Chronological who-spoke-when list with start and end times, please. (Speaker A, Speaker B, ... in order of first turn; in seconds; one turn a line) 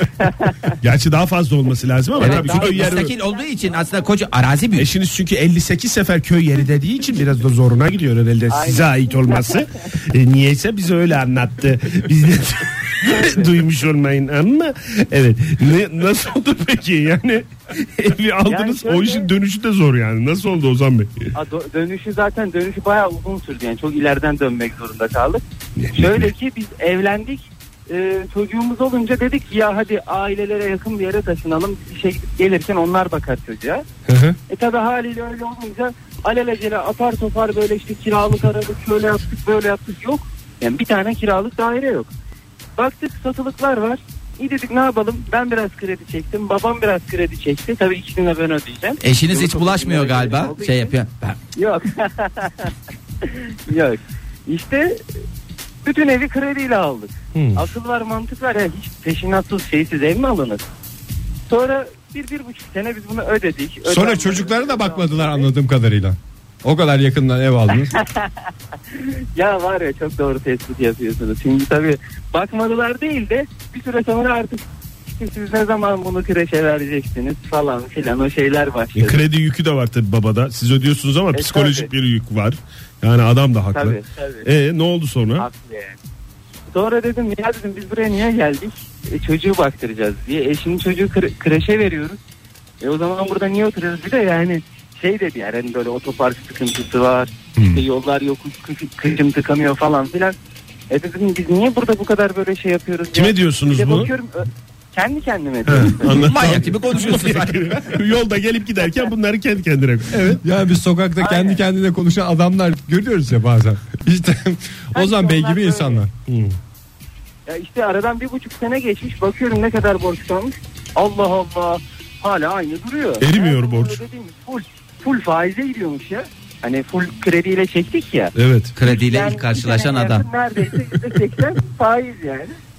Speaker A: 0.2-0.8
Speaker B: 0.8-3.1
Speaker A: 2.1-4.1
Speaker C: 2.2-4.9
Speaker B: 4.8-21.1
Speaker A: 8.5-9.6
Speaker A: 13.0-13.6
Speaker A: 18.5-19.3
Speaker A: 21.4-25.4
Speaker B: 25.8-26.3
Speaker A: 25.9-33.9
Speaker B: 34.1-34.4
Speaker A: 34.5-42.1
Speaker A: 42.8-50.9
Speaker C: 49.0-51.4
Speaker A: 51.5-55.0
Speaker A: 55.8-60.6
Speaker B: 57.3-57.6
Speaker A: 61.5-65.5
Speaker D: 63.9-67.9
Speaker A: 67.7-79.2
Speaker B: 79.0-85.5
Speaker A: 81.3-81.9
Speaker A: 83.7-84.5
Speaker A: 85.4-86.0
Speaker A: 86.7-92.2
Speaker A: 92.8-100.4
Speaker A: 100.9-106.7
Speaker B: 103.1-104.1
Speaker B: 105.7-110.4
Speaker C: 106.2-108.0
Speaker D: 110.4-116.1
Speaker A: 111.2-111.6
Speaker A: 114.9-116.0
Speaker B: 116.2-116.6
Speaker A: 117.5-132.6
Speaker B: 123.2-124.0
Speaker B: 128.3-128.7
Speaker C: 128.8-130.3